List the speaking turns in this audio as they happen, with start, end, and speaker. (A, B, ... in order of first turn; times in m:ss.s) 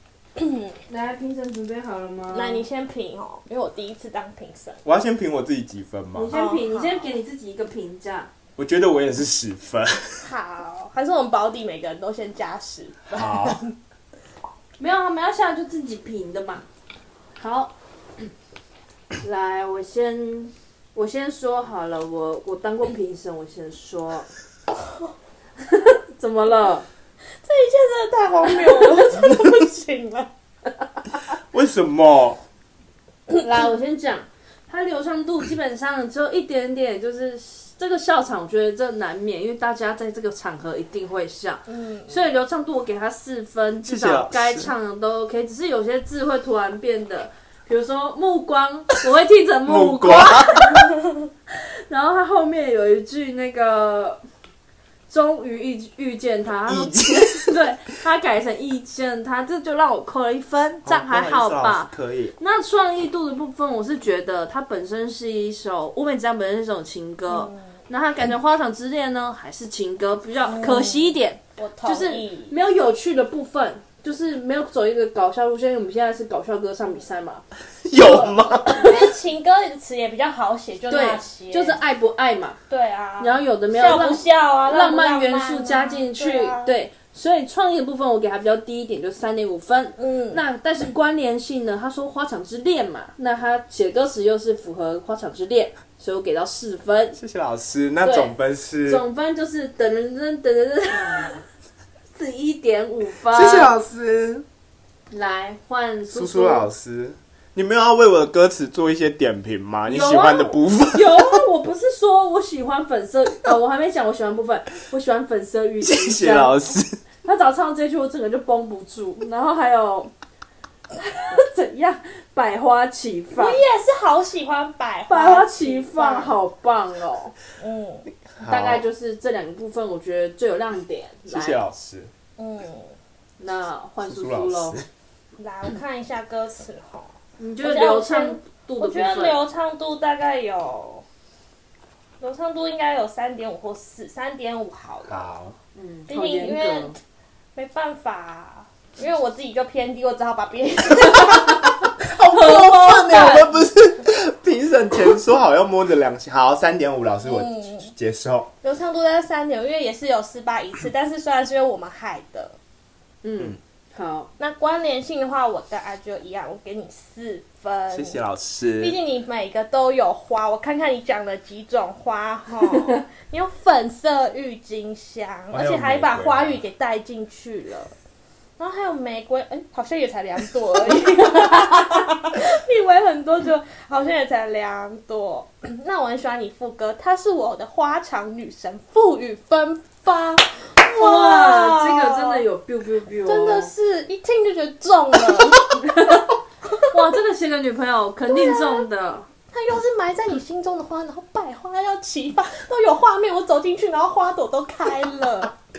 0:00.4-0:00.8 A
0:00.9-0:02.6 B
0:02.3-0:04.8 A
0:04.8-0:06.3 C
0:06.2-0:08.3 B
0:06.3-0:07.1 A
0:08.6-0:10.3 C
0:10.2-0:13.8 A
0:13.1-0:13.6 C
0:14.8-0:16.6 B
0:17.4-0:17.7 B
0:19.2-0:24.3 B
0:25.6-0:26.9 B
0:27.4-0:30.3 A
0:28.6-0:29.0 B
0:31.5-0:32.4 C
0:33.3-0:50.9 B
0:41.7-0:42.3 A
0:43.8-0:44.7 C
0:49.7-0:50.8 C
0:51.5-0:54.2 B
0:55.1-1:19.0 B
0:56.7-0:57.6 C
1:00.8-1:02.4 C
1:07.3-1:07.8 A
1:10.4-1:12.5 A
1:17.8-1:19.0 C
1:18.7-1:21.8 A
1:20.9-1:22.6 B
1:22.7-1:26.8 A
1:23.2-1:37.2 B
1:30.0-1:30.4 A
1:37.2-1:39.0 C
1:38.0-1:38.3 B
1:38.8-1:41.4 B
1:42.2-1:43.7 B
1:43.3-1:44.4 C
1:45.1-1:46.7 B
1:46.1-1:51.4 C
1:49.9-1:56.6 B
1:55.8-1:57.0 C
1:57.2-2:00.1 B
2:01.2-2:03.6 B
2:03.4-2:06.3 A
2:05.1-2:07.4 B
2:07.6-2:08.1 A
2:08.2-2:08.8 C
2:08.4-2:11.6 B
2:11.3-2:12.1 C
2:12.4-2:13.0 A
2:13.4-2:14.8 B
2:14.0-2:14.9 C
2:15.4-2:21.0 A
2:17.4-2:19.4 B
2:22.2-2:25.3 A
2:25.1-2:25.6 C
2:25.8-2:27.0 B
2:26.1-2:27.0 A
2:27.6-2:31.7 A
2:32.0-2:38.5 C
2:32.2-2:33.6 B
2:37.2-2:37.9 A
2:38.6-2:42.6 A
2:43.2-2:44.3 B
2:44.4-2:48.2 A
2:47.9-2:49.0 C
2:48.8-2:58.0 A
2:55.5-2:56.6 C
2:58.6-3:12.4 A
3:00.9-3:01.9 B
3:10.8-3:13.7 B
3:13.2-3:16.1 A
3:15.9-3:19.3 B
3:18.3-3:18.9 A
3:19.5-3:25.5 A